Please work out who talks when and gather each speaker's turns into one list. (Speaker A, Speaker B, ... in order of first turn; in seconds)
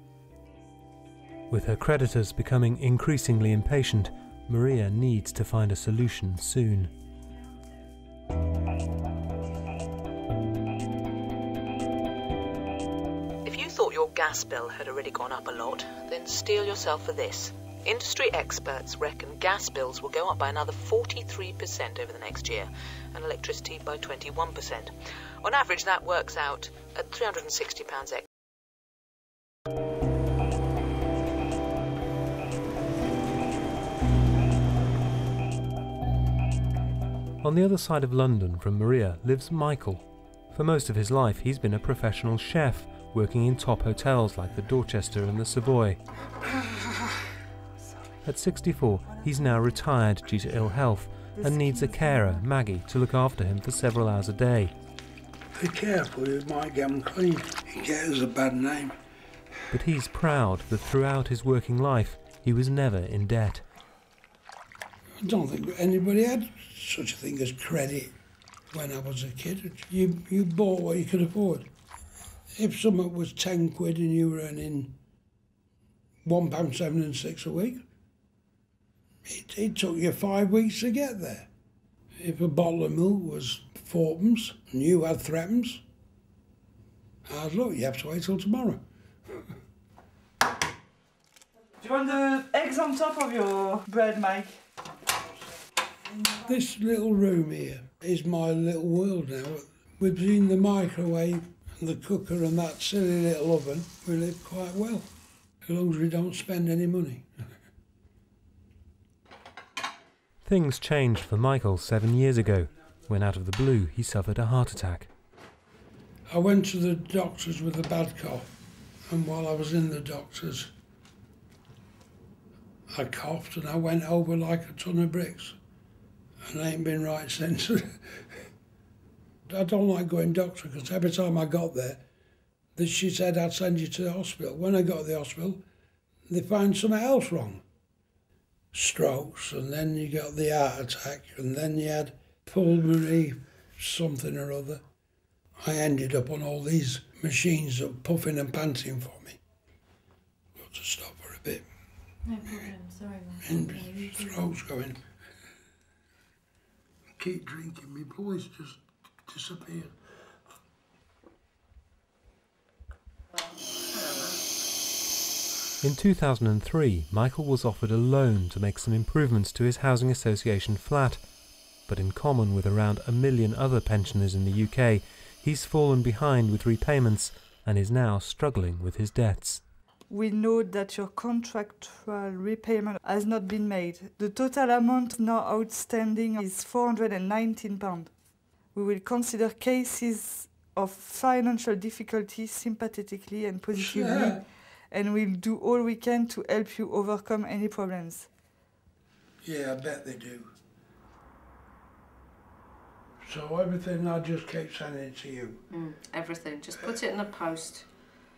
Speaker A: 1.5-6.9, 37.4-46.0, 48.2-54.7, 59.7-63.6, 110.4-115.1, 165.8-171.2, 171.9-179.6
Speaker B: 13.4-28.2
Speaker C: 51.4-52.4, 91.8-94.6, 180.1-188.1, 188.8-198.3
Speaker D: 55.5-59.0, 65.2-68.1, 68.7-71.7, 72.5-75.0, 76.2-77.8, 79.2-81.5, 82.2-85.8, 87.3-88.8, 96.3-105.1, 105.7-107.3, 116.3-118.5, 119.1-120.7, 122.9-125.6, 126.5-128.3, 129.5-132.0, 132.8-135.6, 136.3-137.6, 138.7-144.8, 145.6-149.4, 150.6-151.7, 153.4-155.0, 157.2-159.9, 193.7-194.4, 199.4-200.5, 203.2-205.6
Speaker E: 205.7-207.9